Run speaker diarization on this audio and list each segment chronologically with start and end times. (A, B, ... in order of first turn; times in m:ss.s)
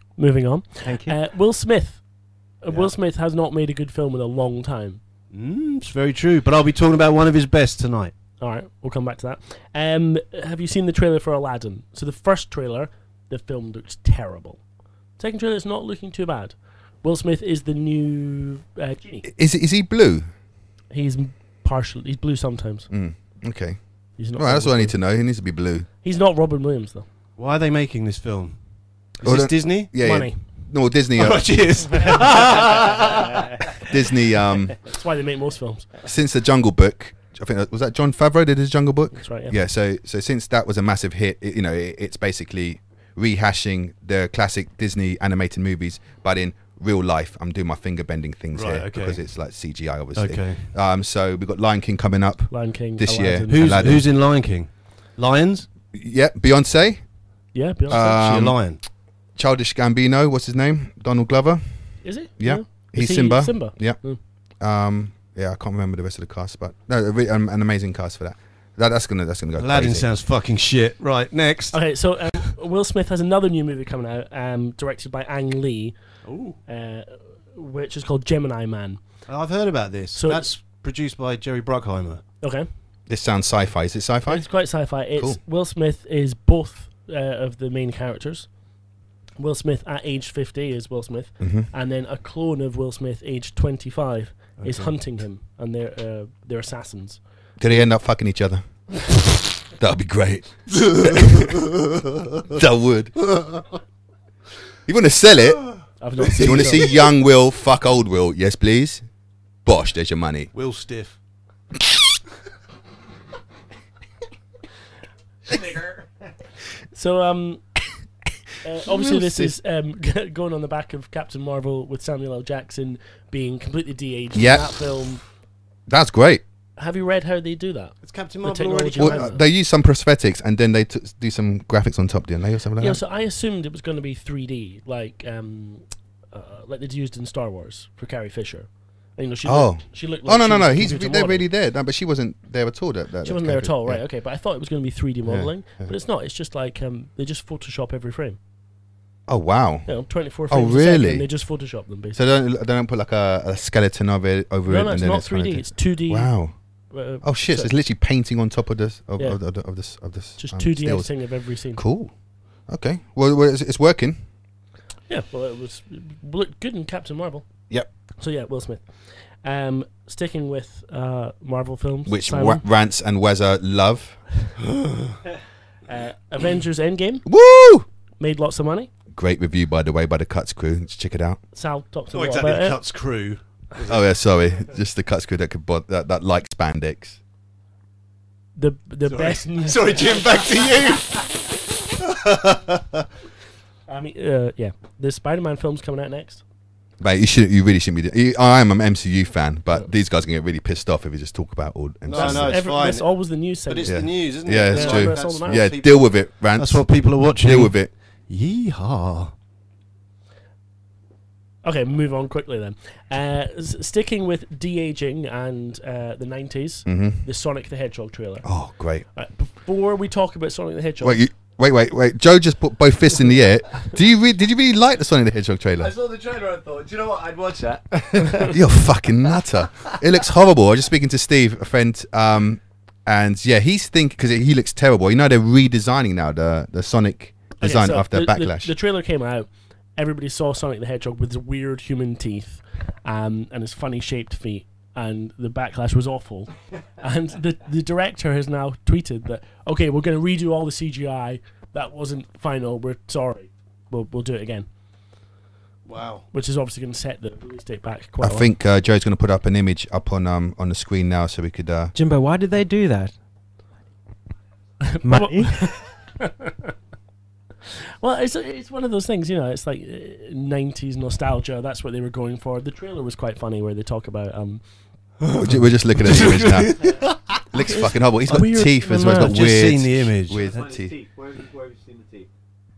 0:00.2-0:02.0 A
0:00.8-0:01.2 B
0:02.6-0:05.0 A
0:05.3-0:08.1 C
0:08.4-0:14.6 A
0:15.2-0:19.3 A
0:19.2-0:20.2 D
0:20.9-0:22.9 A
0:22.9-0:23.8 D
0:24.2-0:25.0 A
0:24.4-0:25.8 D
0:26.0-0:27.0 A
0:27.4-0:28.6 C
0:29.2-0:29.9 C
0:29.2-0:31.5 D
0:30.0-0:30.4 A
0:31.2-0:33.7 C
0:32.0-0:32.4 A
0:33.7-0:34.8 D
0:34.8-0:35.9 A
0:36.0-0:54.0 D
0:39.2-0:39.6 A
0:48.5-0:49.2 C
0:50.2-0:50.6 C
0:52.5-0:53.9 A
0:53.5-0:55.7 C
0:55.9-0:57.0 D
0:57.5-0:58.0 A
0:57.9-0:58.6 D
0:57.9-0:58.8 C
0:59.4-1:01.6 D
1:02.0-1:04.2 A
1:02.4-1:04.0 D
1:04.6-1:10.1 D
1:09.6-1:11.8 C
1:11.7-1:15.9 A
1:16.2-1:16.6 C
1:16.7-1:19.0 A
1:19.3-1:22.2 C
1:20.1-1:20.4 A
1:22.4-1:22.7 A
1:23.1-1:24.5 D
1:24.3-1:28.5 A
1:29.4-1:37.2 A
1:31.4-1:31.7 D
1:34.6-1:34.9 C
1:37.6-1:39.2 D
1:39.8-1:41.5 D
1:40.7-1:41.8 C
1:42.5-1:43.2 D
1:44.8-1:45.7 D
1:46.0-1:46.9 A
1:46.2-1:47.1 C
1:46.3-1:49.0 D
1:49.6-1:50.5 D
1:50.5-1:51.2 C
1:56.9-1:57.6 A
1:58.6-2:05.2 A
1:58.8-1:59.5 D
2:04.3-2:04.8 D
2:05.9-2:06.4 D
2:06.8-2:09.4 A
2:08.0-2:09.2 C
2:09.0-2:13.0 D
2:12.8-2:21.5 A
2:19.4-2:24.0 D
2:23.2-2:28.4 A
2:25.2-2:25.9 D
2:29.3-2:29.9 D
2:29.8-2:32.2 A
2:30.5-2:31.2 D
2:32.1-2:36.5 D
2:34.7-2:36.3 A
2:36.9-2:37.7 A
2:37.2-2:41.1 D
2:40.4-2:41.8 A
2:41.7-2:42.1 D
2:42.7-2:44.2 D
2:45.1-2:47.4 A
2:48.2-2:48.9 A
2:49.4-2:52.6 A
2:52.0-2:54.2 D
2:55.9-2:57.2 A
2:57.2-2:57.8 D
2:58.2-2:58.9 A
2:59.1-3:01.4 D
3:01.5-3:02.8 A
3:02.1-3:04.0 C
3:03.9-3:07.2 D
3:08.6-3:10.4 A
3:09.0-3:11.3 C
3:12.0-3:12.8 C
3:13.9-3:16.4 A
3:17.0-3:22.6 D
3:22.0-3:23.0 C
3:22.1-3:24.0 A
3:23.7-3:27.7 C
3:23.8-3:26.8 D
3:24.6-3:25.7 A
3:27.4-3:27.9 D
3:28.3-3:29.3 C
3:31.6-3:38.4 A
3:36.8-3:37.2 D
3:38.4-3:39.0 D
3:39.1-3:41.2 A
3:41.0-3:45.9 D
3:45.8-3:48.6 E
3:48.4-3:58.7 D
3:57.6-4:14.7 A
4:15.9-4:16.2 C
4:16.3-4:18.5 A
4:18.2-4:21.9 D
4:21.9-4:23.1 B
4:24.8-4:26.7 A
4:25.0-4:25.7 B
4:28.0-4:34.6 A
4:35.2-4:37.1 C
4:35.4-4:36.8 D
4:37.5-4:40.9 D
4:37.6-4:39.5 A
4:39.1-4:40.5 C
4:40.3-4:42.3 E